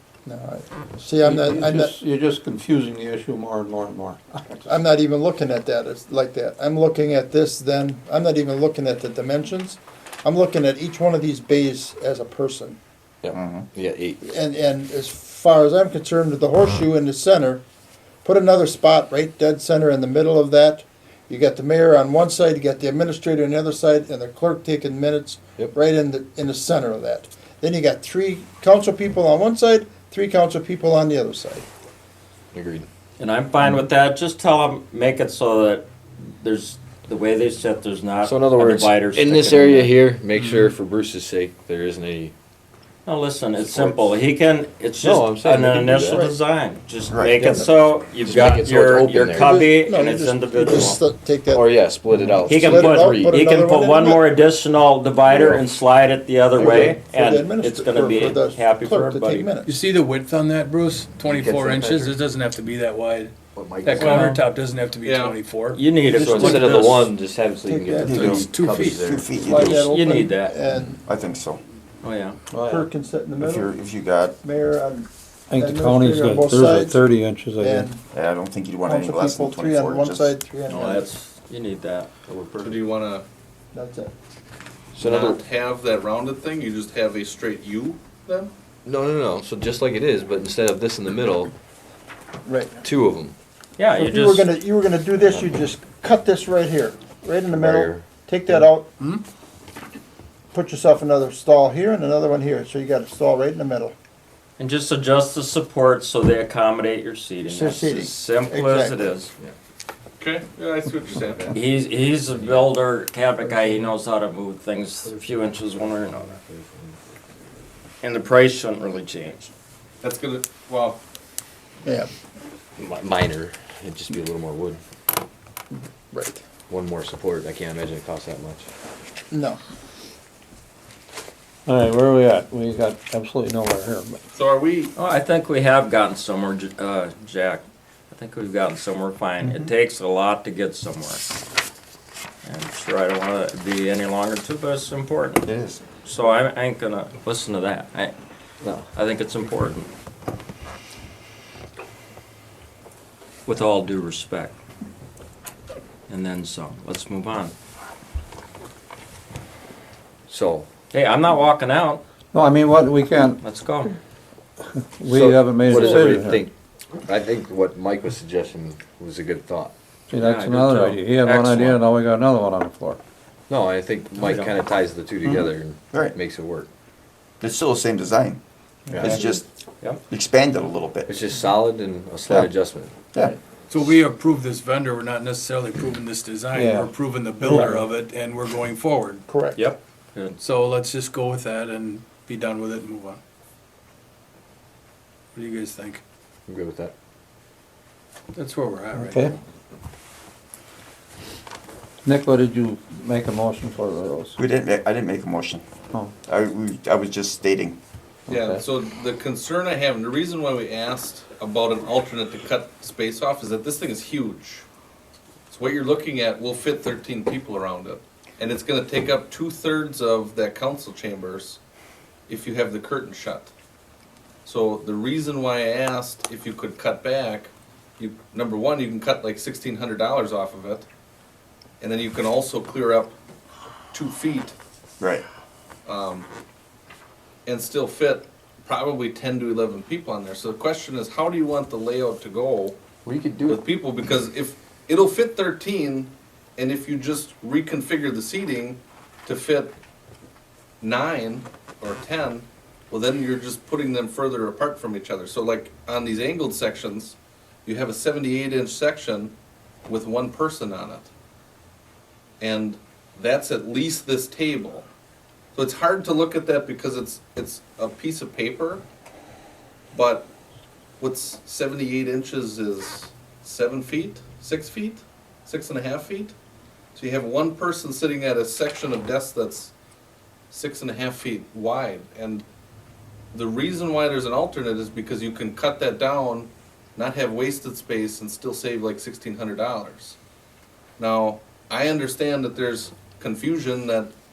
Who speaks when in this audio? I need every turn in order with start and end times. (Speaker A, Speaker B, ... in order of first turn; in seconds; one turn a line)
Speaker A: 0.3-2.0
Speaker B: 1.2-4.7
Speaker A: 4.7-12.8
Speaker C: 13.2-14.2
Speaker D: 13.3-13.7
Speaker A: 14.2-17.6
Speaker A: 18.2-31.6
Speaker C: 32.5-32.9
Speaker E: 33.2-40.0
Speaker C: 38.2-42.3
Speaker F: 40.3-40.7
Speaker E: 43.0-51.0
Speaker C: 43.6-44.1
Speaker C: 45.0-46.3
Speaker A: 46.1-46.3
Speaker D: 47.1-47.7
Speaker A: 47.4-47.7
Speaker C: 48.2-49.8
Speaker A: 49.3-51.7
Speaker C: 51.5-53.4
Speaker A: 52.4-54.3
Speaker E: 52.5-59.5
Speaker C: 55.3-55.7
Speaker A: 56.5-59.8
Speaker F: 59.7-65.8
Speaker C: 61.2-62.2
Speaker C: 63.5-64.3
Speaker E: 64.0-64.5
Speaker G: 65.0-65.4
Speaker E: 65.7-67.1
Speaker C: 66.1-69.8
Speaker A: 66.5-66.9
Speaker A: 67.6-68.3
Speaker D: 68.0-69.9
Speaker F: 68.1-69.1
Speaker A: 69.3-71.0
Speaker E: 69.6-70.6
Speaker D: 71.0-71.6
Speaker E: 72.0-72.4
Speaker B: 72.5-72.9
Speaker A: 72.7-73.7
Speaker D: 73.4-74.4
Speaker A: 74.4-77.0
Speaker B: 75.5-77.9
Speaker A: 77.6-78.0
Speaker D: 78.1-80.3
Speaker A: 78.8-81.1
Speaker E: 80.7-82.1
Speaker C: 82.3-82.8
Speaker G: 82.6-83.2
Speaker A: 83.7-84.1
Speaker C: 84.9-85.4
Speaker G: 85.0-88.5
Speaker C: 88.8-91.5
Speaker A: 92.5-92.8
Speaker C: 92.8-93.4
Speaker E: 93.8-94.5
Speaker A: 94.0-98.9
Speaker C: 95.3-95.6
Speaker C: 97.5-98.7
Speaker A: 100.5-103.9
Speaker E: 104.6-109.3
Speaker A: 107.5-109.2
Speaker G: 110.2-111.5
Speaker C: 111.3-111.6
Speaker E: 111.5-116.3
Speaker C: 112.3-112.7
Speaker C: 113.4-113.9
Speaker C: 115.0-117.0
Speaker E: 118.0-119.5
Speaker G: 120.0-121.0
Speaker A: 121.8-122.1
Speaker C: 122.8-124.8
Speaker A: 125.7-126.4
Speaker C: 126.7-128.7
Speaker A: 129.3-129.6
Speaker B: 131.7-134.2
Speaker G: 134.3-134.9
Speaker E: 134.9-141.2
Speaker E: 142.4-145.5
Speaker D: 145.4-145.8
Speaker E: 146.0-148.1
Speaker C: 148.6-148.9
Speaker E: 148.9-149.9
Speaker E: 153.5-154.6
Speaker E: 156.1-157.5
Speaker C: 160.3-160.7
Speaker E: 160.9-162.0
Speaker B: 162.3-163.4
Speaker E: 163.4-163.9
Speaker B: 164.7-166.5
Speaker C: 165.1-169.7
Speaker E: 170.1-171.9
Speaker B: 170.1-173.0
Speaker C: 173.5-176.7
Speaker E: 174.2-174.6
Speaker D: 175.2-176.2
Speaker D: 177.4-178.4
Speaker C: 178.9-179.2
Speaker D: 179.0-179.5
Speaker E: 179.1-180.0
Speaker D: 180.1-181.2
Speaker C: 181.1-183.3
Speaker F: 183.7-189.2
Speaker B: 186.5-187.9
Speaker A: 189.3-189.6
Speaker E: 189.6-190.4
Speaker F: 190.4-193.2
Speaker F: 195.3-196.0
Speaker C: 196.5-196.9
Speaker F: 198.3-199.3
Speaker B: 199.0-199.3
Speaker B: 202.1-204.4
Speaker D: 204.4-205.7
Speaker D: 206.2-207.8
Speaker G: 208.3-214.7
Speaker G: 215.5-221.6
Speaker G: 222.3-223.5
Speaker G: 224.4-230.9
Speaker G: 231.8-233.1
Speaker G: 233.9-234.6
Speaker D: 235.0-235.2
Speaker G: 235.9-236.3
Speaker G: 237.5-242.8
Speaker C: 243.1-243.7
Speaker G: 243.5-249.8
Speaker G: 250.8-259.3
Speaker G: 259.9-261.1
Speaker G: 262.4-264.9
Speaker G: 265.6-268.8
Speaker G: 269.9-270.3
Speaker G: 271.0-276.4
Speaker G: 276.9-279.7
Speaker G: 280.5-282.4
Speaker G: 283.3-290.2
Speaker G: 291.0-294.1